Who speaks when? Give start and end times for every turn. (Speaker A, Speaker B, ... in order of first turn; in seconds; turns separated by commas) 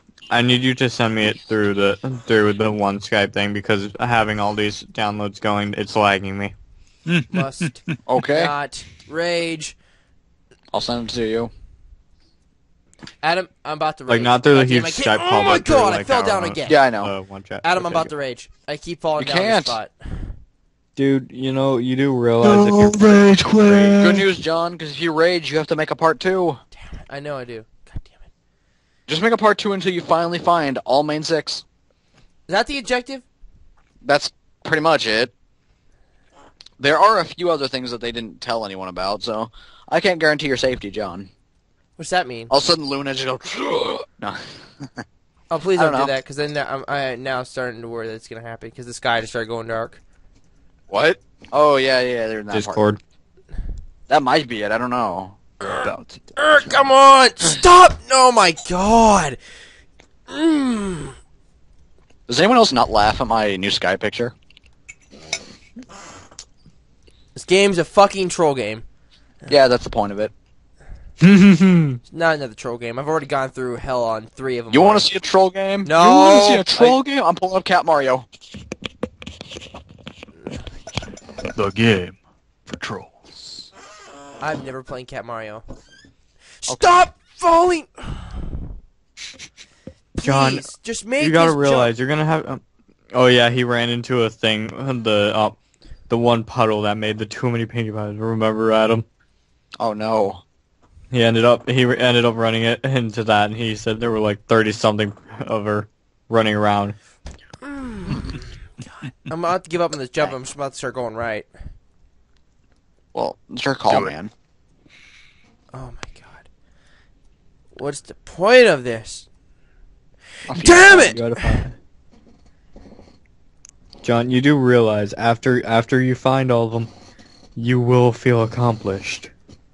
Speaker A: 0.3-6.5, Speaker B: 7.1-8.0, Speaker C: 7.3-9.8, Speaker D: 8.1-8.5, Speaker D: 10.7-11.5, Speaker C: 13.2-16.9, Speaker A: 14.1-18.1, Speaker D: 16.6-17.1, Speaker C: 17.6-20.3, Speaker D: 19.2-19.8, Speaker A: 20.9-24.0, Speaker B: 22.4-24.4, Speaker D: 24.0-26.6, Speaker C: 26.8-28.3, Speaker D: 29.1-31.6, Speaker C: 32.5-33.2, Speaker D: 34.0-35.3, Speaker D: 36.8-41.3, Speaker C: 42.0-42.5, Speaker D: 42.5-45.0, Speaker C: 45.5-50.0, Speaker D: 45.7-46.1, Speaker D: 50.9-52.8, Speaker A: 52.5-53.0, Speaker D: 54.1-55.4, Speaker B: 55.6-56.2, Speaker C: 56.4-59.4, Speaker C: 60.3-61.1, Speaker D: 62.3-64.3, Speaker C: 67.3-68.8, Speaker D: 69.5-70.3, Speaker A: 71.2-72.0, Speaker C: 72.1-75.1, Speaker D: 74.7-78.2, Speaker C: 75.8-77.0, Speaker B: 81.5-83.7, Speaker C: 84.4-85.6, Speaker C: 86.6-88.5, Speaker D: 86.7-87.0, Speaker C: 90.2-91.9, Speaker A: 90.2-95.6, Speaker A: 96.1-99.0, Speaker D: 99.8-100.4, Speaker A: 101.1-107.0, Speaker C: 107.6-111.5, Speaker D: 113.1-114.3, Speaker B: 113.8-114.1, Speaker C: 115.7-116.5, Speaker C: 117.7-119.3, Speaker D: 120.5-121.0, Speaker C: 120.5-121.6, Speaker A: 120.7-121.8, Speaker A: 124.0-126.9, Speaker A: 127.5-129.3